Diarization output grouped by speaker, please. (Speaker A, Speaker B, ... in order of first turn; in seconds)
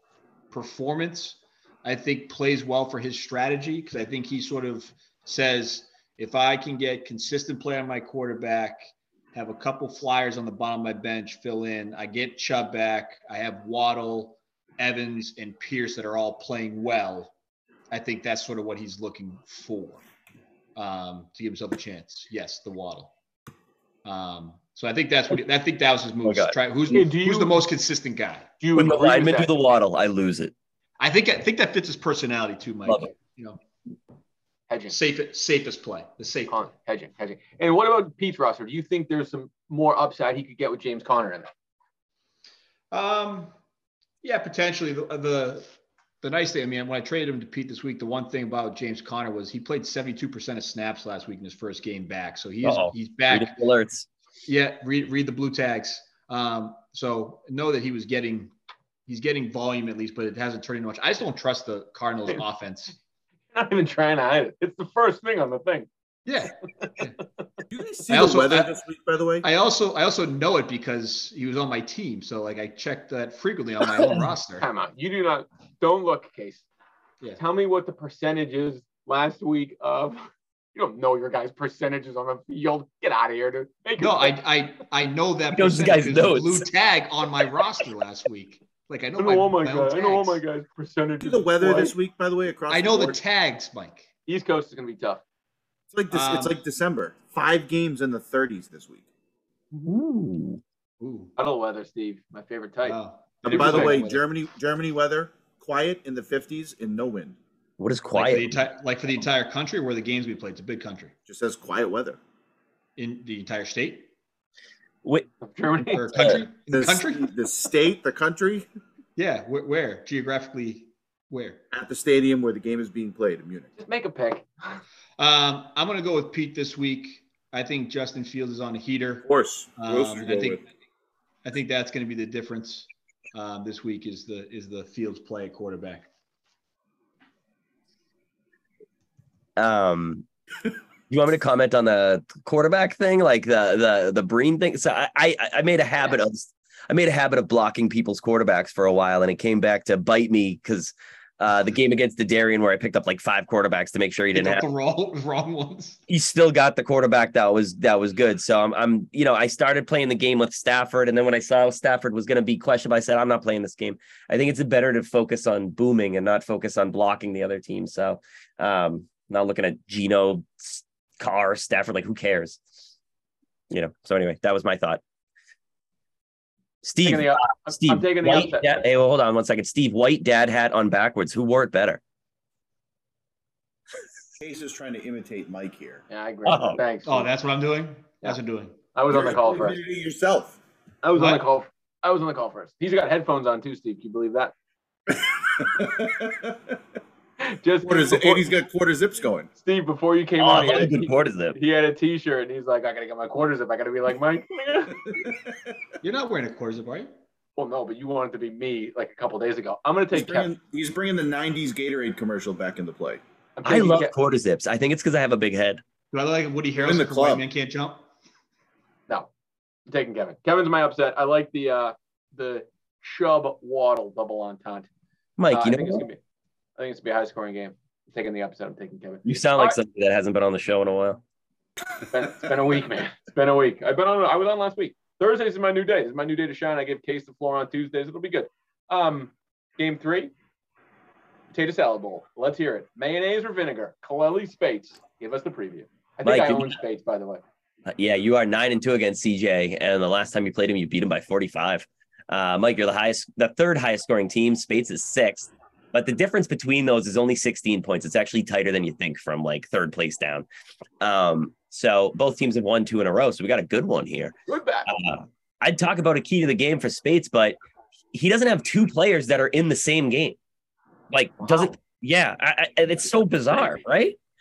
Speaker A: 0.5-17.3, 17.9-20.0, 20.8-23.1, 24.1-28.5, 31.0-33.6, 34.9-36.6, 42.9-43.5, 44.2-45.7, 46.2-53.6, 54.5-58.5, 59.1-63.0, 66.3-67.2, 68.1-68.7, 69.4-74.7, 84.0-90.4, 92.7-94.1, 96.1-96.6, 101.0-101.3, 102.8-104.2, 108.1-111.1, 113.0-114.1, 115.9-117.3, 119.2-121.6, 125.2-130.6, 131.4-136.1, 154.3-156.0, 187.1-188.8, 191.2-191.4, 206.0-207.1, 216.1-218.1
Speaker B: 26.2-26.6, 28.8-30.5, 52.6-54.1, 85.5-86.7, 99.8-100.6, 107.8-108.6, 116.1-116.4, 139.6-140.2, 141.1-154.7, 156.1-172.9, 173.7-175.0, 176.8-182.0, 186.4-186.8, 200.4-201.6, 213.7-215.8, 225.4-226.1, 229.2-231.2, 246.2-246.8, 247.9-260.5, 261.0-264.3, 264.9-267.6, 268.1-270.4, 271.1-274.2
Speaker C: 26.9-27.7, 28.6-29.5, 34.7-35.0, 36.5-41.5, 63.5-65.9, 74.6-76.7, 77.4-84.4, 89.2-91.9, 94.3-95.2, 101.4-104.1, 115.4-116.4, 123.8-124.8, 177.0-178.8, 186.1-187.3, 188.9-189.8, 191.0-194.5, 197.4-198.5, 199.6-205.0, 207.6-210.5, 213.6-214.1, 219.9-224.9, 225.5-226.2, 226.8-229.8, 232.1-240.3, 241.5-247.4, 264.5-264.9, 271.4-271.7
Speaker D: 67.7-69.5, 91.2-93.2, 95.9-99.1, 103.4-107.4, 111.3-112.2, 116.7-118.7, 121.7-123.7, 129.2-130.6, 184.4-186.0, 189.1-190.6, 195.1-196.8, 197.8-199.5, 205.1-205.7, 210.1-213.2, 216.8-217.4